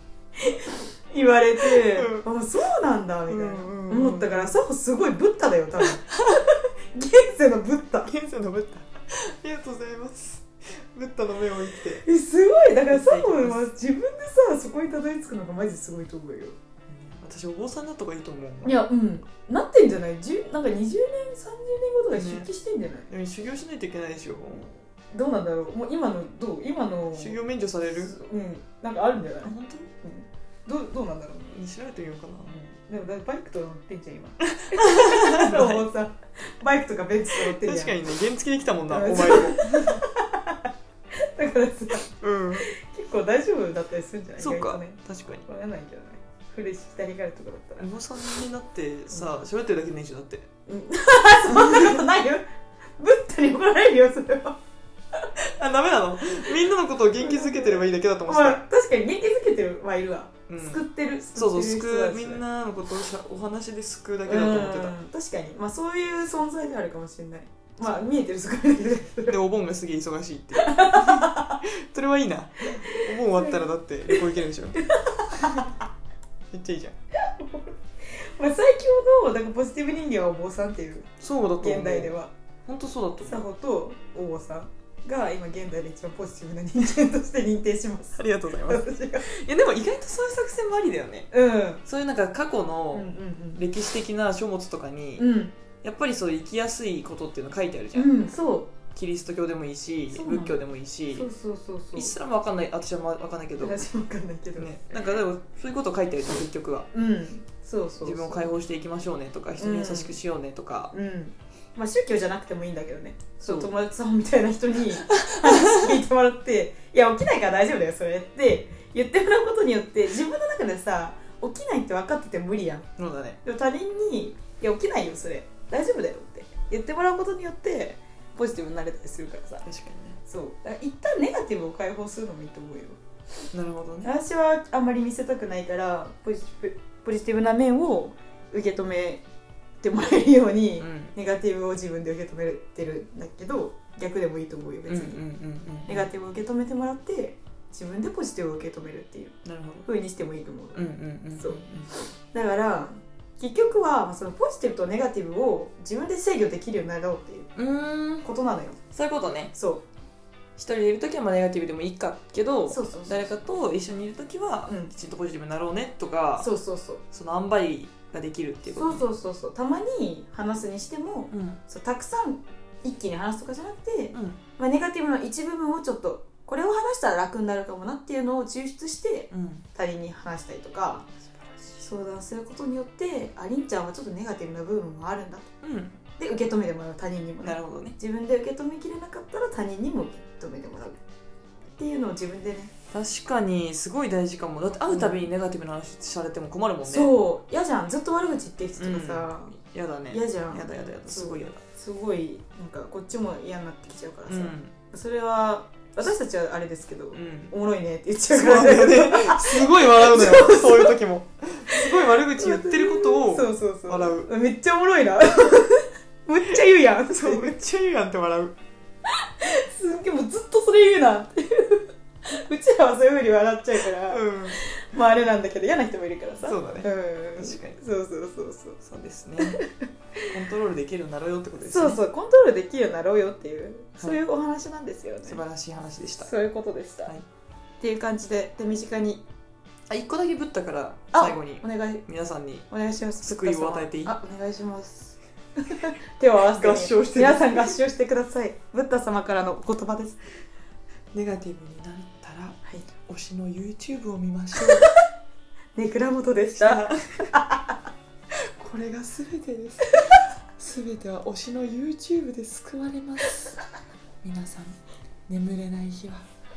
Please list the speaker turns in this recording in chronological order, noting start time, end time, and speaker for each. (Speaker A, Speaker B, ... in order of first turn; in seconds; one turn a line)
Speaker A: 0.4-8.1
Speaker B: 1.6-2.2
Speaker B: 3.3-4.5
Speaker B: 8.1-12.0
Speaker A: 11.9-16.6
Speaker B: 12.9-13.7
Speaker B: 16.9-18.8
Speaker A: 18.6-23.1
Speaker B: 22.1-22.5
Speaker B: 23.1-24.8
Speaker A: 25.1-27.4
Speaker B: 27.1-28.1
Speaker A: 27.9-31.6
Speaker B: 29.4-29.9
Speaker B: 31.5-32.7
Speaker A: 32.9-38.0
Speaker B: 34.4-35.8
Speaker B: 37.3-40.0
Speaker A: 38.9-40.6
Speaker A: 41.2-42.0
Speaker B: 42.1-42.7
Speaker A: 42.6-47.9
Speaker B: 44.4-45.4
Speaker B: 47.8-50.5
Speaker A: 50.7-52.4
Speaker B: 51.5-52.0
Speaker A: 53.0-54.6
Speaker B: 55.4-58.6
Speaker A: 57.2-62.4
Speaker B: 60.5-60.8
Speaker B: 61.3-65.0
Speaker A: 64.2-69.4
Speaker B: 69.3-74.8
Speaker A: 70.5-71.6
Speaker A: 72.7-74.2
Speaker A: 74.8-75.8
Speaker B: 75.3-75.6
Speaker B: 76.5-76.9
Speaker A: 77.1-77.8
Speaker A: 78.3-82.3
Speaker B: 81.2-82.1
Speaker B: 82.7-83.4
Speaker A: 83.2-89.2
Speaker B: 88.2-91.3
Speaker A: 91.3-91.8
Speaker B: 91.8-95.2
Speaker A: 92.9-93.6
Speaker A: 95.2-95.5
Speaker B: 95.8-98.1
Speaker A: 97.9-98.7
Speaker B: 98.9-101.3
Speaker A: 100.1-102.1
Speaker B: 102.0-103.8
Speaker A: 103.6-105.0
Speaker B: 104.6-106.9
Speaker A: 106.9-108.6
Speaker B: 108.0-110.9
Speaker A: 109.6-110.2
Speaker A: 110.9-122.9
Speaker B: 113.4-113.7
Speaker B: 115.1-116.0
Speaker B: 123.0-123.4
Speaker A: 123.4-129.7
Speaker B: 129.6-130.2
Speaker A: 130.2-133.0
Speaker B: 133.5-134.1
Speaker A: 134.0-139.2
Speaker A: 139.8-145.2
Speaker B: 140.8-141.1
Speaker B: 144.9-146.1
Speaker A: 145.8-157.5
Speaker B: 149.4-149.9
Speaker B: 150.7-151.9
Speaker B: 157.6-158.2
Speaker A: 158.2-158.8
Speaker B: 158.9-159.5
Speaker A: 159.5-159.8
Speaker B: 160.6-166.5
Speaker A: 162.7-163.4
Speaker A: 164.7-164.9
Speaker A: 166.4-167.0
Speaker B: 167.1-169.1
Speaker A: 168.7-181.1
Speaker B: 171.3-171.6
Speaker B: 174.1-174.4
Speaker B: 179.3-179.7
Speaker A: 181.8-185.5
Speaker B: 185.6-186.0
Speaker A: 186.2-191.0
Speaker B: 187.4-188.0
Speaker A: 191.8-192.7
Speaker B: 192.9-197.1
Speaker A: 194.9-195.3
Speaker A: 196.8-199.5
Speaker B: 198.8-201.6
Speaker A: 200.1-210.9
Speaker B: 204.3-204.7
Speaker B: 207.1-207.5
Speaker B: 208.3-214.3
Speaker A: 211.7-217.6
Speaker B: 217.1-218.6
Speaker A: 219.2-228.8
Speaker B: 224.1-224.6
Speaker B: 226.4-227.8
Speaker B: 228.8-229.6
Speaker A: 229.4-230.3
Speaker B: 230.3-232.0
Speaker A: 231.6-235.4
Speaker B: 235.2-236.3
Speaker A: 236.2-237.2
Speaker A: 237.8-239.2
Speaker B: 239.9-242.7
Speaker A: 241.1-242.0
Speaker A: 242.7-250.2
Speaker B: 243.2-244.2
Speaker B: 246.6-247.8
Speaker B: 251.1-254.9
Speaker A: 254.6-254.9
Speaker A: 255.8-257.7
Speaker B: 256.5-257.2
Speaker B: 258.6-263.6
Speaker B: 264.2-266.3